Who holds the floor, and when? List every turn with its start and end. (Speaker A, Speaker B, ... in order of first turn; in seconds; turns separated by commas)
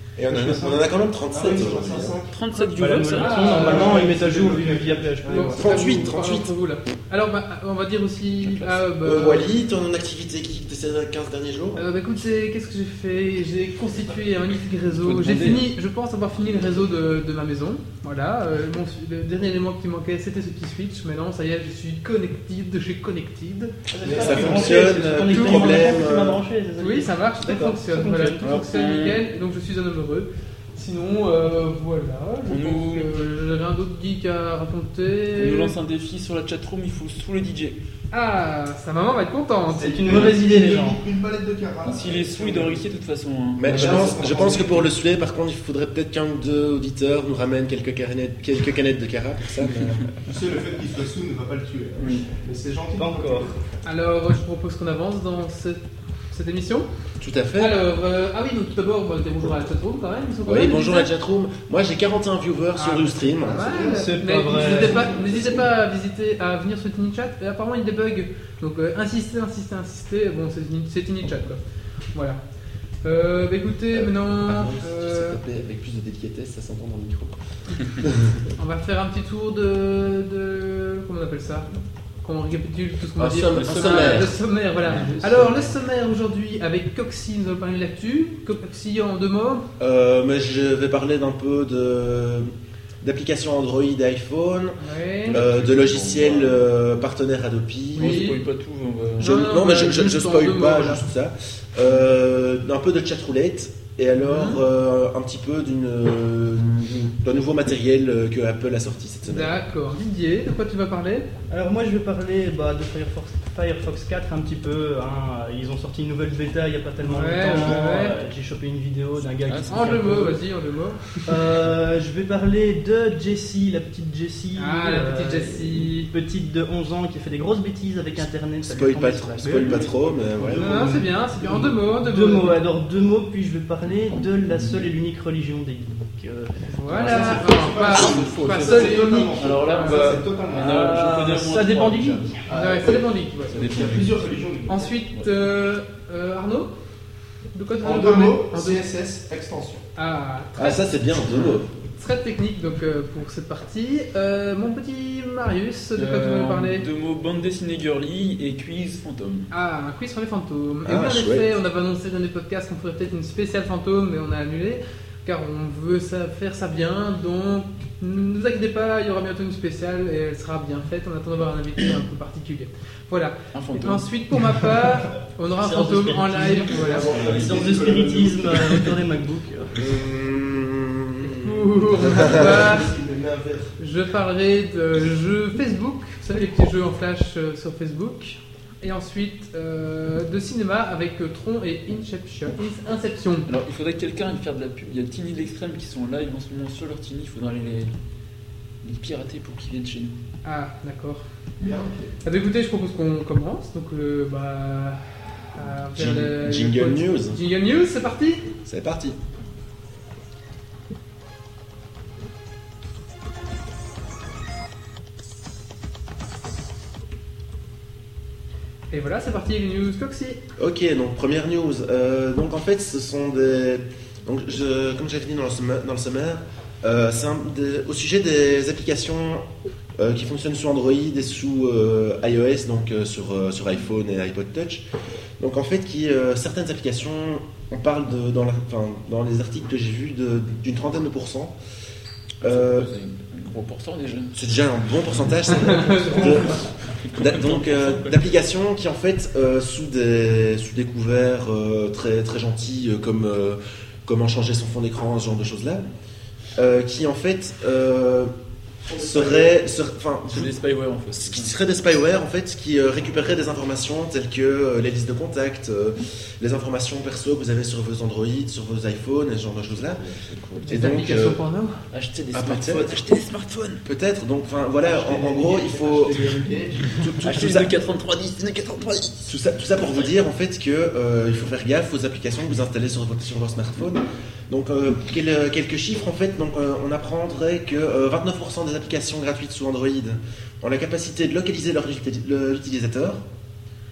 Speaker A: 0.1-2.2, Speaker B: 0.3-2.3, Speaker C: 2.3-3.7, Speaker D: 2.5-4.1, Speaker E: 2.8-5.6, Speaker B: 3.3-5.6, Speaker D: 5.2-9.5, Speaker A: 5.5-6.5, Speaker C: 8.4-8.8, Speaker A: 9.0-11.8, Speaker D: 11.8-23.8, Speaker C: 15.0-15.7, Speaker E: 23.9-28.6, Speaker B: 24.0-24.9, Speaker A: 24.2-26.4, Speaker D: 25.3-25.9, Speaker D: 26.8-35.7, Speaker C: 28.4-29.2, Speaker C: 32.5-33.1, Speaker C: 35.3-37.8, Speaker D: 38.1-40.3, Speaker B: 39.7-42.8, Speaker E: 39.8-41.0, Speaker C: 41.8-44.6, Speaker A: 43.6-50.1, Speaker B: 43.6-44.9, Speaker C: 49.6-50.0, Speaker B: 50.2-53.6, Speaker C: 52.0-52.2, Speaker E: 53.0-53.5, Speaker D: 53.8-56.9, Speaker A: 57.2-57.8, Speaker D: 57.5-61.1, Speaker A: 60.4-63.8, Speaker D: 62.7-71.6, Speaker B: 63.4-65.6, Speaker E: 63.9-65.2, Speaker D: 72.1-72.4, Speaker D: 73.0-75.4, Speaker A: 73.9-78.5, Speaker D: 78.6-81.7, Speaker D: 82.2-89.7, Speaker A: 83.2-84.4, Speaker C: 83.5-84.3, Speaker B: 84.9-85.7, Speaker A: 89.8-98.3, Speaker D: 94.8-95.4, Speaker C: 95.2-96.7, Speaker D: 98.0-98.4, Speaker C: 98.0-99.4, Speaker D: 99.2-101.0, Speaker A: 99.2-109.5, Speaker D: 104.2-104.6, Speaker D: 109.3-111.3, Speaker E: 111.5-120.4, Speaker D: 117.0-118.3, Speaker C: 119.4-120.3, Speaker D: 119.7-121.4, Speaker E: 121.2-137.4, Speaker D: 124.5-126.1, Speaker A: 128.6-131.0, Speaker C: 129.4-130.1, Speaker D: 130.6-132.6, Speaker C: 134.1-134.8, Speaker D: 136.7-140.1, Speaker B: 136.9-141.1, Speaker C: 137.8-142.3, Speaker E: 140.5-142.5, Speaker B: 142.5-144.9, Speaker D: 142.5-143.6, Speaker C: 143.5-144.4, Speaker D: 144.7-146.7, Speaker D: 147.5-148.9, Speaker B: 147.8-149.8, Speaker D: 149.9-150.9, Speaker A: 150.6-151.7, Speaker C: 151.3-151.6, Speaker D: 152.0-156.8, Speaker C: 155.9-159.5, Speaker D: 159.5-177.1, Speaker A: 160.8-161.5, Speaker C: 173.5-174.1, Speaker E: 175.6-179.8, Speaker B: 176.7-178.9, Speaker C: 177.0-177.6, Speaker A: 179.7-182.3, Speaker D: 181.2-182.9, Speaker B: 182.0-183.8, Speaker D: 183.8-193.5, Speaker C: 193.5-197.9, Speaker C: 198.8-200.1, Speaker D: 200.4-201.2, Speaker B: 201.6-202.1, Speaker D: 202.2-208.4, Speaker A: 205.9-207.4, Speaker A: 208.6-209.2, Speaker D: 218.9-220.4, Speaker A: 220.6-229.4, Speaker A: 230.0-234.8, Speaker A: 235.4-241.5, Speaker A: 242.4-242.9, Speaker C: 242.4-244.3, Speaker A: 244.3-255.8, Speaker D: 245.6-246.3, Speaker E: 245.8-246.5, Speaker C: 246.2-248.3, Speaker A: 256.5-258.3, Speaker B: 258.9-259.5, Speaker A: 259.0-260.5, Speaker C: 260.2-261.5, Speaker A: 261.2-270.0, Speaker C: 269.8-270.9, Speaker D: 270.6-271.8, Speaker A: 270.7-271.4, Speaker C: 271.9-273.8, Speaker A: 272.3-273.0, Speaker A: 273.8-276.3, Speaker B: 274.8-277.1, Speaker A: 276.9-277.7, Speaker C: 277.2-279.3, Speaker A: 279.2-293.2